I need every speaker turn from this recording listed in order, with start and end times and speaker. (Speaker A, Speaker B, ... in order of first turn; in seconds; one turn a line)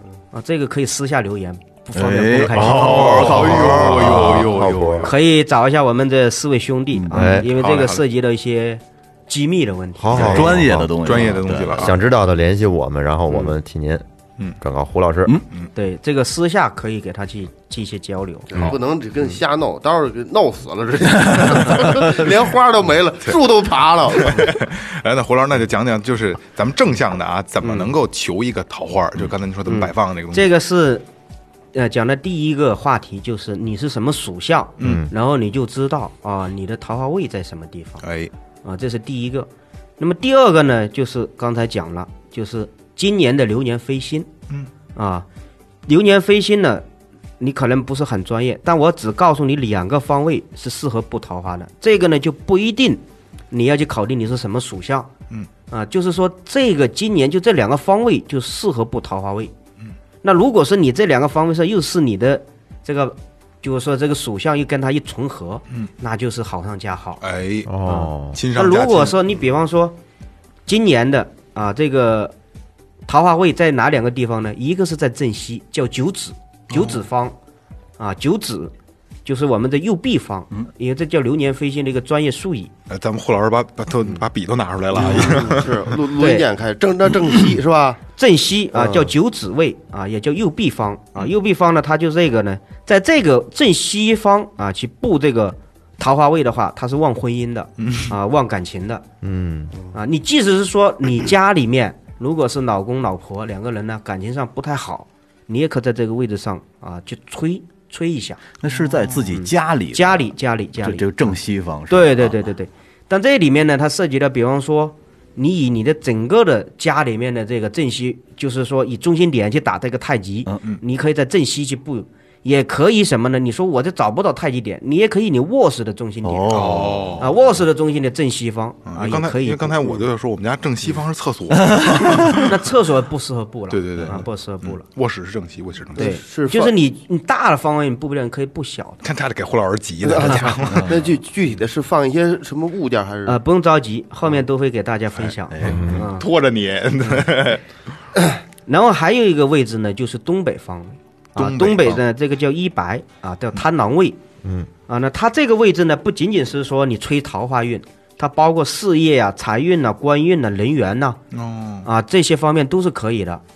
Speaker A: 0.3-3.2
Speaker B: 1.9-4.5
Speaker C: 2.5-5.2
Speaker D: 2.8-5.1
Speaker A: 5.0-10.4
Speaker D: 7.1-7.5
Speaker C: 7.2-8.0
Speaker D: 10.0-11.2
Speaker B: 10.1-11.9
Speaker C: 10.1-12.0
Speaker D: 11.7-14.1
Speaker D: 14.6-15.4
Speaker A: 15.8-18.7
Speaker E: 18.5-24.5
Speaker C: 24.2-30.5
Speaker A: 27.6-27.9
Speaker A: 29.7-31.1
Speaker A: 31.7-38.0
Speaker C: 34.8-35.0
Speaker D: 34.8-35.1
Speaker C: 38.0-38.3
Speaker A: 38.6-44.3
Speaker A: 45.0-45.3
Speaker A: 45.9-46.9
Speaker A: 47.4-55.1
Speaker A: 55.7-59.5
Speaker A: 60.2-67.2
Speaker C: 67.2-67.7
Speaker D: 67.7-68.4
Speaker A: 67.8-70.0
Speaker C: 68.3-69.2
Speaker A: 70.7-72.3
Speaker A: 73.1-77.3
Speaker C: 76.7-77.0
Speaker A: 78.0-78.7
Speaker A: 79.2-82.7
Speaker C: 82.9-86.0
Speaker A: 85.0-85.4
Speaker E: 85.0-88.0
Speaker A: 86.2-86.5
Speaker A: 88.2-99.0
Speaker E: 88.7-89.1
Speaker C: 97.8-98.1
Speaker D: 99.2-99.7
Speaker A: 99.9-108.4
Speaker B: 108.6-112.4
Speaker A: 109.3-111.4
Speaker A: 111.9-130.0
Speaker B: 126.2-127.2
Speaker C: 126.5-127.3
Speaker C: 128.9-132.6
Speaker B: 131.6-132.4
Speaker A: 132.4-134.8
Speaker C: 133.7-136.1
Speaker E: 136.0-136.7
Speaker A: 136.0-139.0
Speaker C: 139.0-141.1
Speaker E: 140.0-143.4
Speaker A: 143.3-146.3
Speaker B: 145.5-146.0
Speaker D: 145.6-146.1
Speaker C: 145.7-147.6
Speaker A: 148.7-154.2
Speaker C: 151.4-152.0
Speaker D: 154.4-154.7
Speaker A: 154.9-161.2
Speaker C: 161.3-161.9
Speaker A: 161.8-163.4